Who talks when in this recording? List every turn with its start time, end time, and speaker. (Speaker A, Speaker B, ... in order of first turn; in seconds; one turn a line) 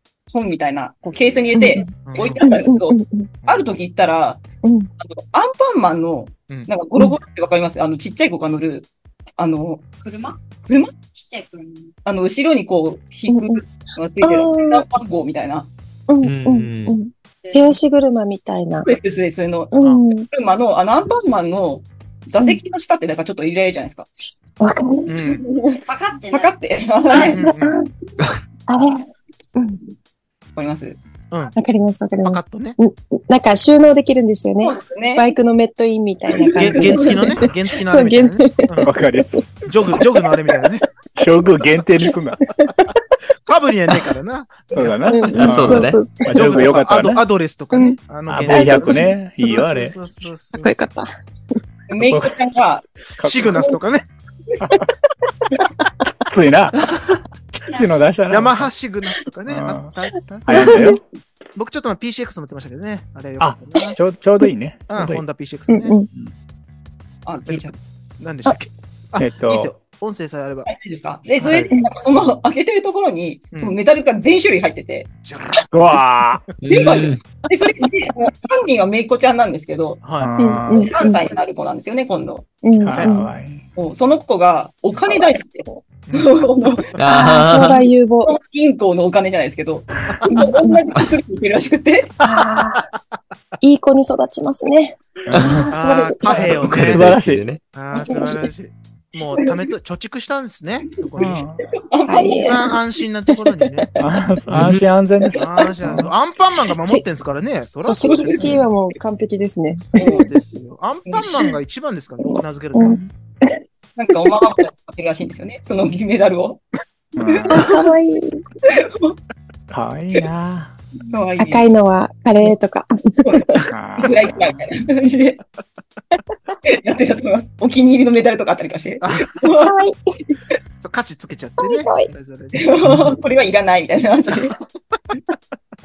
Speaker A: 0.3-3.0
Speaker B: 1.5-3.3
Speaker C: 2.0-2.5
Speaker C: 3.4-3.7
Speaker A: 3.5-4.4
Speaker B: 4.6-4.9
Speaker A: 5.0-10.9
Speaker D: 10.0-10.5
Speaker D: 11.0-11.9
Speaker A: 12.0-15.7
Speaker B: 13.3-13.6
Speaker B: 14.2-14.8
Speaker B: 16.1-18.9
Speaker E: 16.2-17.0
Speaker D: 17.4-17.8
Speaker A: 18.8-19.7
Speaker B: 19.7-20.3
Speaker A: 20.3-24.1
Speaker B: 24.6-25.2
Speaker C: 25.1-25.4
Speaker A: 25.4-27.4
Speaker D: 25.9-26.5
Speaker C: 27.2-27.7
Speaker B: 27.2-27.9
Speaker B: 28.7-29.9
Speaker A: 30.5-31.0
Speaker C: 31.3-31.6
Speaker B: 31.5-38.9
Speaker C: 32.2-32.8
Speaker A: 34.6-35.3
Speaker A: 36.5-37.2
Speaker C: 36.5-38.9
Speaker F: 38.8-39.7
Speaker C: 39.6-40.8
Speaker B: 39.9-40.3
Speaker F: 41.1-42.4
Speaker C: 43.5-45.6
Speaker F: 44.7-47.2
Speaker B: 45.1-46.6
Speaker E: 45.4-46.0
Speaker C: 46.2-50.8
Speaker B: 47.7-49.2
Speaker F: 48.3-49.9
Speaker B: 50.6-51.1
Speaker A: 51.9-52.9
Speaker F: 52.0-52.6
Speaker F: 53.2-53.7
Speaker C: 53.2-54.0
Speaker F: 56.2-56.8
Speaker F: 57.5-58.7
Speaker C: 58.3-60.7
Speaker F: 59.5-59.9
Speaker F: 60.5-61.0
Speaker B: 60.5-61.0
Speaker C: 61.5-64.1
Speaker F: 63.4-65.2
Speaker C: 64.9-65.9
Speaker B: 65.7-66.1
Speaker A: 67.2-67.7
Speaker C: 67.5-70.7
Speaker F: 69.2-69.7
Speaker A: 70.7-75.1
Speaker C: 71.4-72.3
Speaker C: 75.2-76.3
Speaker F: 75.7-76.4
Speaker E: 76.6-77.2
Speaker A: 76.7-80.0
Speaker C: 80.0-80.3
Speaker F: 80.2-80.9
Speaker B: 80.4-81.2
Speaker A: 80.7-82.5
Speaker B: 82.6-83.3
Speaker F: 82.8-83.6
Speaker C: 82.9-83.2
Speaker A: 83.8-87.0
Speaker C: 86.1-87.0
Speaker E: 87.0-87.8
Speaker B: 87.1-88.3
Speaker A: 88.2-92.2
Speaker B: 90.3-90.9
Speaker B: 92.2-92.9
Speaker C: 92.4-93.0
Speaker B: 93.6-96.5
Speaker F: 95.3-95.7
Speaker E: 95.3-95.6
Speaker C: 95.7-97.1
Speaker F: 96.2-97.4
Speaker E: 96.6-97.6
Speaker C: 97.7-101.5
Speaker B: 97.9-98.5
Speaker F: 101.2-101.6
Speaker A: 101.2-102.7
Speaker B: 102.1-102.7
Speaker C: 102.4-103.9
Speaker F: 104.0-106.1
Speaker C: 105.3-108.7
Speaker B: 106.8-107.0
Speaker B: 107.8-110.2
Speaker A: 108.0-108.5
Speaker A: 110.0-110.2
Speaker C: 110.1-113.1
Speaker A: 111.1-111.3
Speaker B: 112.3-113.6
Speaker A: 114.0-116.6
Speaker F: 117.2-117.6
Speaker A: 117.2-117.8
Speaker B: 117.5-118.4
Speaker A: 118.7-119.2
Speaker F: 119.7-120.7
Speaker A: 121.1-121.7
Speaker B: 121.4-123.6
Speaker A: 123.2-125.4
Speaker F: 123.7-124.5
Speaker A: 126.7-129.7
Speaker C: 129.0-129.4
Speaker B: 129.6-130.4
Speaker C: 130.8-133.1
Speaker B: 131.6-132.1
Speaker A: 132.5-134.6
Speaker C: 134.3-135.3